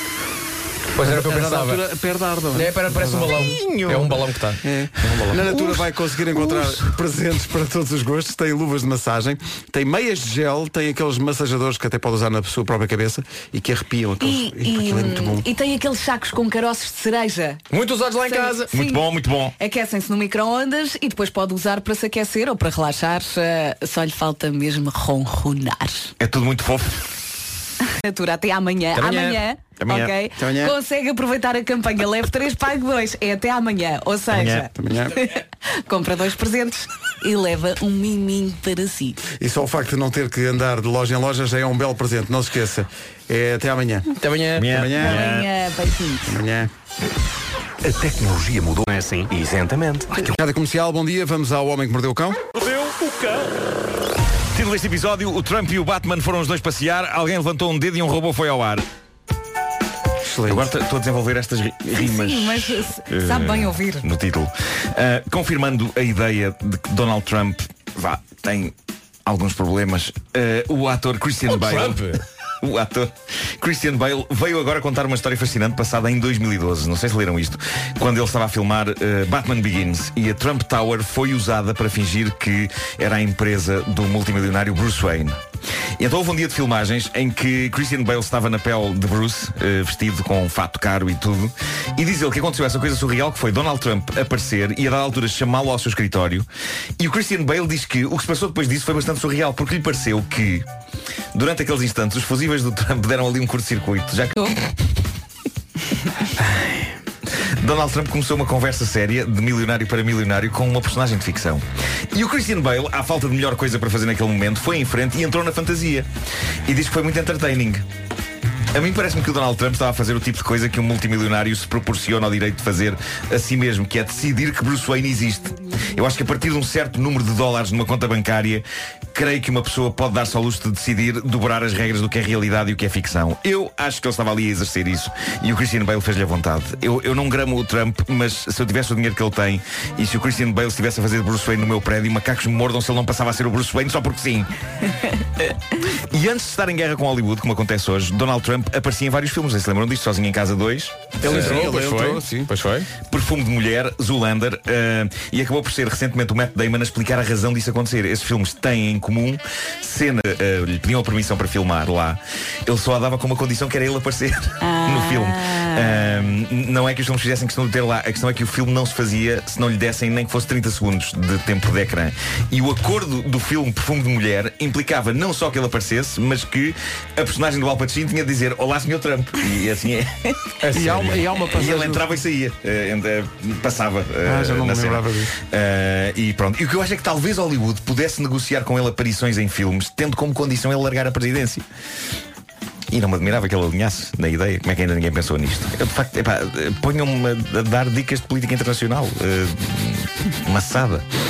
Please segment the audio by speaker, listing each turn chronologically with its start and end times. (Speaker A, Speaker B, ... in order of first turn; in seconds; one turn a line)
Speaker A: 0.9-1.8
Speaker B: 1.0-3.5
Speaker A: 2.5-5.4
Speaker C: 3.4-4.2
Speaker B: 4.6-15.5
Speaker C: 5.2-6.8
Speaker D: 14.2-17.6
Speaker A: 17.7-18.7
Speaker D: 18.2-19.0
Speaker C: 18.7-19.5
Speaker D: 19.6-26.1
Speaker C: 26.2-27.1
Speaker D: 27.8-39.2
Speaker A: 28.9-29.4
Speaker C: 29.8-30.1
Speaker B: 30.4-30.7
Speaker C: 34.3-34.6
Speaker B: 34.6-35.1
Speaker B: 39.3-45.3
Speaker A: 44.2-44.7
Speaker C: 44.6-45.5
Speaker D: 44.9-46.4
Speaker B: 46.2-46.7
Speaker E: 47.8-50.3
Speaker B: 50.2-52.4
Speaker C: 54.5-58.8
Speaker B: 60.2-60.7
Speaker C: 60.5-68.7
Speaker D: 62.0-64.0
Speaker C: 69.2-85.3
Speaker A: 71.5-72.2
Speaker C: 86.0-96.5
Speaker C: 97.0-100.7
Speaker C: 101.3-104.7
Speaker C: 107.6-116.1
Speaker C: 116.7-117.8
Speaker C: 118.7-144.5
Speaker C: 145.4-151.6
Speaker B: 151.2-152.5
Speaker A: 151.2-152.9
Speaker C: 153.1-180.3
Speaker D: 164.6-166.1
Speaker A: 180.6-181.3
Speaker B: 180.7-182.1
Speaker C: 181.4-191.6
Speaker B: 184.2-185.3
Speaker C: 192.9-201.0